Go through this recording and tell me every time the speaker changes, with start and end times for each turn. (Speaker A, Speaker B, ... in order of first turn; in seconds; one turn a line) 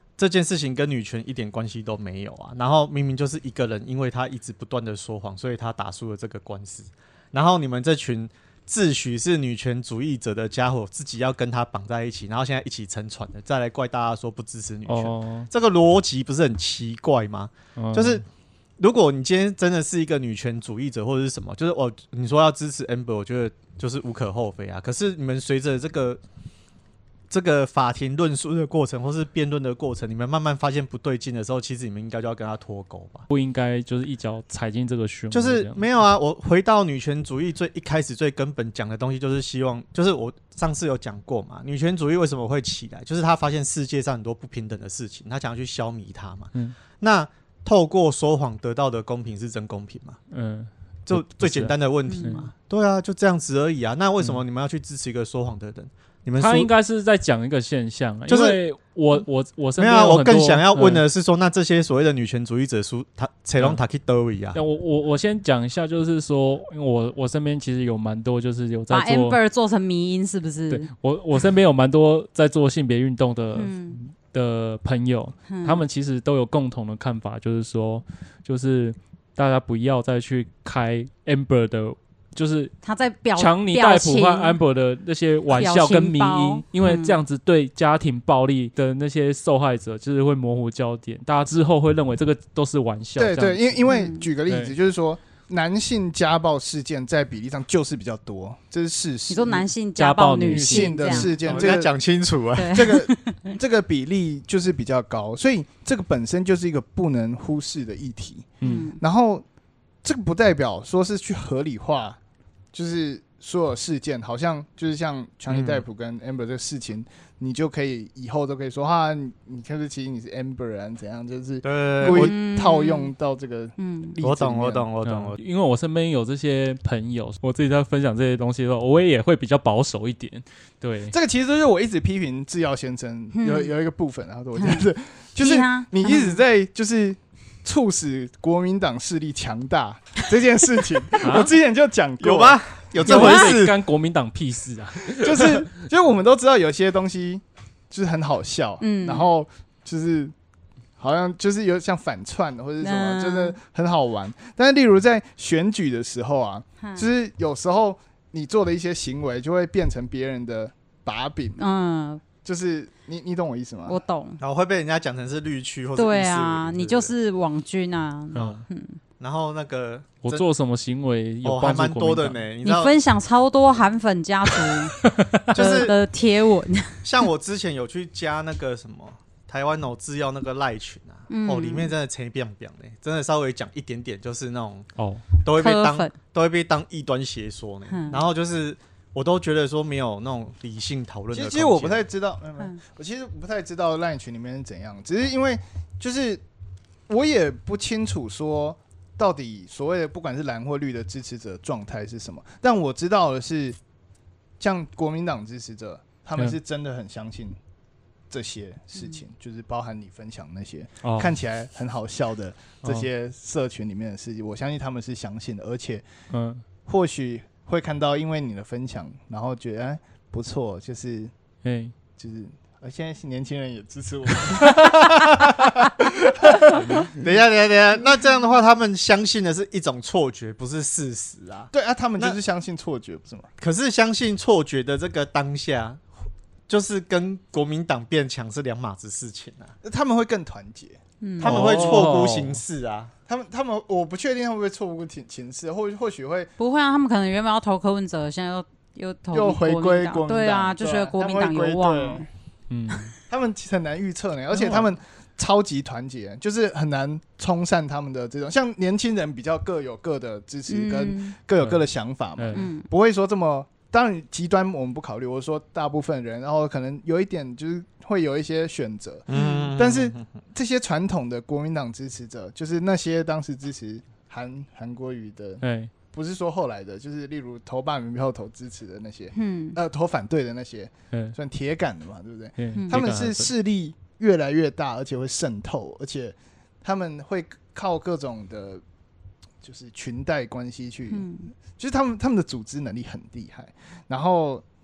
Speaker A: 0.2-18.2
Speaker B: 14.9-15.5
Speaker B: 17.8-18.2
Speaker A: 18.8-26.2
Speaker A: 27.3-33.2
Speaker B: 33.3-35.8
Speaker A: 35.3-50.2
Speaker B: 50.3-52.5
Speaker A: 51.1-56.7
Speaker C: 52.1-52.4
Speaker B: 56.4-61.0
Speaker A: 58.3-58.6
Speaker A: 59.8-64.6
Speaker B: 64.5-69.4
Speaker C: 68.9-70.9
Speaker B: 70.7-82.7
Speaker C: 73.5-74.0
Speaker C: 75.5-75.8
Speaker C: 82.8-84.6
Speaker B: 83.3-93.9
Speaker C: 85.5-87.2
Speaker D: 93.2-99.7
Speaker C: 93.9-94.3
Speaker B: 94.5-94.7
Speaker C: 99.3-101.3
Speaker B: 100.0-101.7
Speaker D: 100.5-101.9
Speaker A: 101.4-102.9
Speaker C: 102.5-103.5
Speaker D: 102.7-109.4
Speaker B: 108.6-108.9
Speaker C: 108.6-109.0
Speaker D: 110.0-112.2
Speaker D: 112.7-124.9
Speaker A: 115.5-115.8
Speaker A: 121.6-122.3
Speaker C: 122.0-123.1
Speaker C: 123.8-124.1
Speaker A: 124.2-125.4
Speaker B: 125.0-131.1
Speaker D: 131.1-142.6
Speaker C: 133.3-133.7
Speaker C: 134.6-134.8
Speaker C: 135.4-136.4
Speaker B: 141.2-141.5
Speaker A: 142.2-143.8
Speaker B: 143.0-145.7
Speaker C: 143.1-143.5
Speaker D: 145.2-150.3
Speaker C: 148.8-149.2
Speaker D: 151.0-161.6
Speaker C: 152.8-153.6
Speaker C: 156.8-157.1
Speaker C: 161.6-162.2
Speaker D: 162.4-164.0
Speaker C: 163.8-164.4
Speaker A: 164.4-167.1
Speaker C: 165.9-169.0
Speaker B: 168.3-168.6
Speaker A: 168.3-168.6
Speaker A: 169.2-170.4
Speaker B: 170.2-172.4
Speaker A: 171.4-172.9
Speaker C: 172.6-174.9
Speaker B: 174.8-175.4
Speaker A: 175.5-175.9
Speaker C: 175.5-177.0
Speaker A: 177.0-192.0
Speaker C: 181.3-181.9
Speaker B: 185.0-185.2
Speaker C: 185.5-186.1
Speaker C: 187.9-188.2
Speaker D: 191.3-196.4
Speaker D: 197.1-203.8
Speaker D: 204.6-207.6
Speaker D: 208.3-216.0
Speaker B: 211.0-211.3
Speaker B: 216.3-216.6
Speaker D: 216.8-221.3
Speaker B: 221.6-221.9
Speaker D: 222.2-227.1
Speaker B: 226.6-227.1
Speaker A: 227.1-232.4
Speaker D: 231.7-233.5
Speaker A: 233.6-236.0
Speaker A: 236.7-239.7
Speaker D: 239.8-241.0
Speaker C: 241.2-241.6
Speaker B: 241.4-242.6
Speaker A: 241.4-243.1
Speaker D: 241.5-242.1
Speaker D: 243.3-246.5
Speaker C: 246.6-252.3
Speaker D: 249.3-252.2
Speaker B: 252.7-253.1
Speaker D: 253.3-288.8
Speaker C: 260.7-261.3
Speaker B: 262.4-262.7
Speaker C: 262.5-262.9
Speaker A: 269.3-270.3
Speaker C: 269.3-269.7
Speaker B: 275.6-275.9
Speaker C: 279.3-279.8
Speaker B: 282.6-283.5
Speaker D: 289.6-294.6
Speaker C: 291.1-291.5